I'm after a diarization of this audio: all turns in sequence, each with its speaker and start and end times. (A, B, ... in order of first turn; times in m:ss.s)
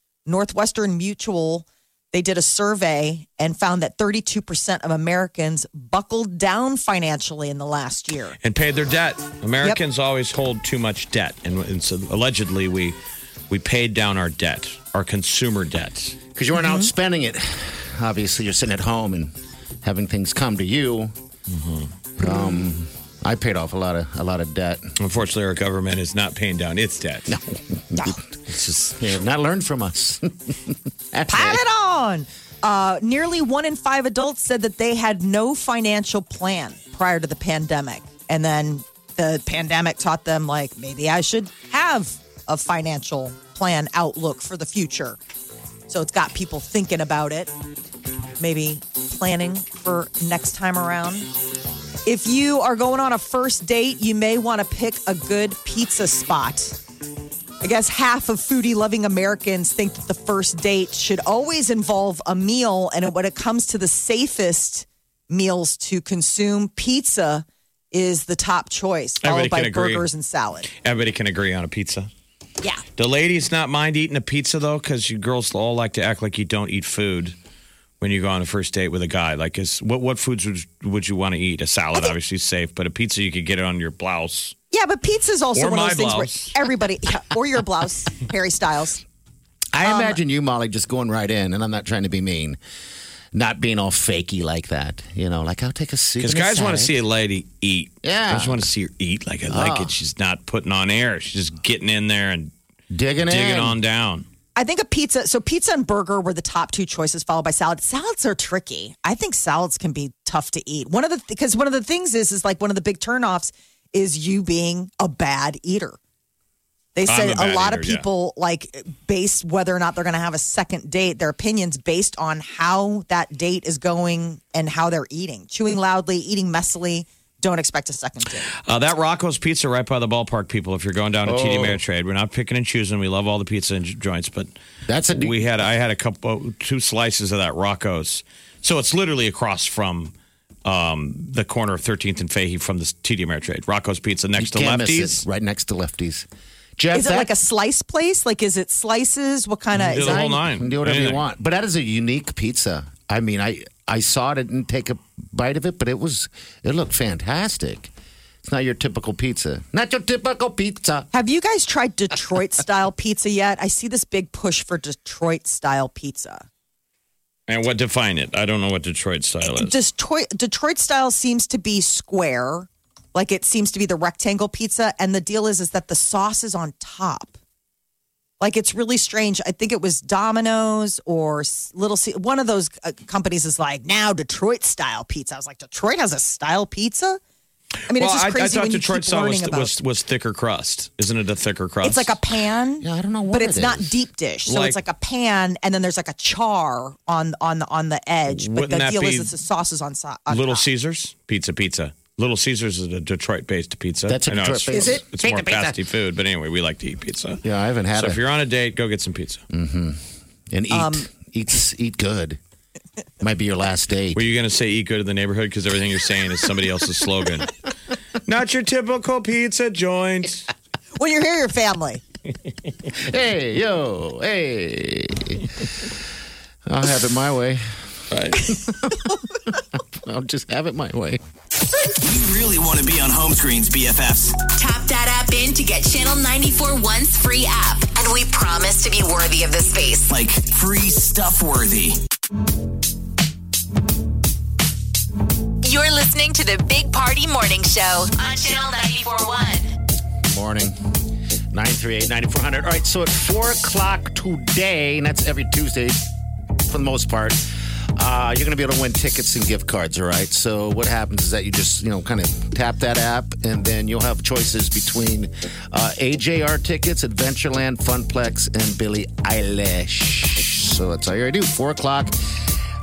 0:00.3-0:08.4 A
0:08.4-0:13.0 B
0:13.5-0:16.2 B
0:16.4-0:21.1 C
0:16.6-0:16.9 A
0:21.5-0:21.9 B
0:22.2-0:24.9 C
0:25.0-0:27.3 B
0:27.3-0:28.4 C
0:28.5-0:29.0 B
0:29.0-0:31.6 C
0:31.3-0:45.2 A
0:45.9-0:47.5 A
0:48.4-0:51.3 A
0:52.0-0:56.8 A
0:57.6-1:10.7 A
1:09.2-1:10.1 B
1:10.8-1:12.1 B
1:13.0-1:17.4 B
1:18.0-1:24.6 B
1:24.7-1:29.0 A
1:25.6-1:26.5 B
1:29.7-1:32.6 C
1:29.8-1:30.2 A
1:33.3-1:36.9 C
1:36.2-1:42.5 B
1:38.0-1:38.7 C
1:39.5-1:39.9 C
1:42.9-1:43.8 C
1:43.3-1:44.3 B
1:44.6-1:56.0 A
1:57.0-2:08.5 A
1:57.0-1:58.1 B
2:08.7-2:14.5 B
2:11.2-2:11.8 C
2:14.9-2:15.5 C
2:15.1-2:20.1 B
2:20.7-2:25.2 B
2:24.4-2:26.3 C
2:26.8-2:27.3 C
2:26.9-2:30.3 A
2:29.8-2:31.2 B
2:29.9-2:37.9 C
2:38.4-2:41.1 C
2:41.1-2:46.5 A
2:47.5-2:49.7 B
2:49.4-2:57.3 A
2:58.4-3:07.2 A
3:07.9-3:09.7 A
3:07.9-3:12.2 B
3:11.8-3:20.6 A
3:12.8-3:14.0 C
3:14.5-3:14.8 B
3:18.3-3:19.3 B
3:20.3-3:27.4 B
3:24.1-3:25.8 C
3:24.7-3:25.0 A
3:27.4-3:28.2 C
3:27.9-3:29.4 B
3:29.5-3:32.4 C
3:30.7-3:31.1 A
3:33.2-3:34.2 C
3:34.2-3:37.5 B
3:38.3-3:40.5 B
3:41.0-3:42.0 A
3:42.9-3:45.5 C
3:46.7-3:47.9 C
3:48.1-3:48.5 B
3:48.4-3:49.1 C
3:49.9-3:51.2 C
3:52.0-3:54.4 D
3:54.5-4:00.1 E
4:00.1-4:02.0 D
4:05.6-4:09.7 E
4:10.2-4:10.8 C
4:11.5-4:16.0 C
4:16.7-4:32.2 C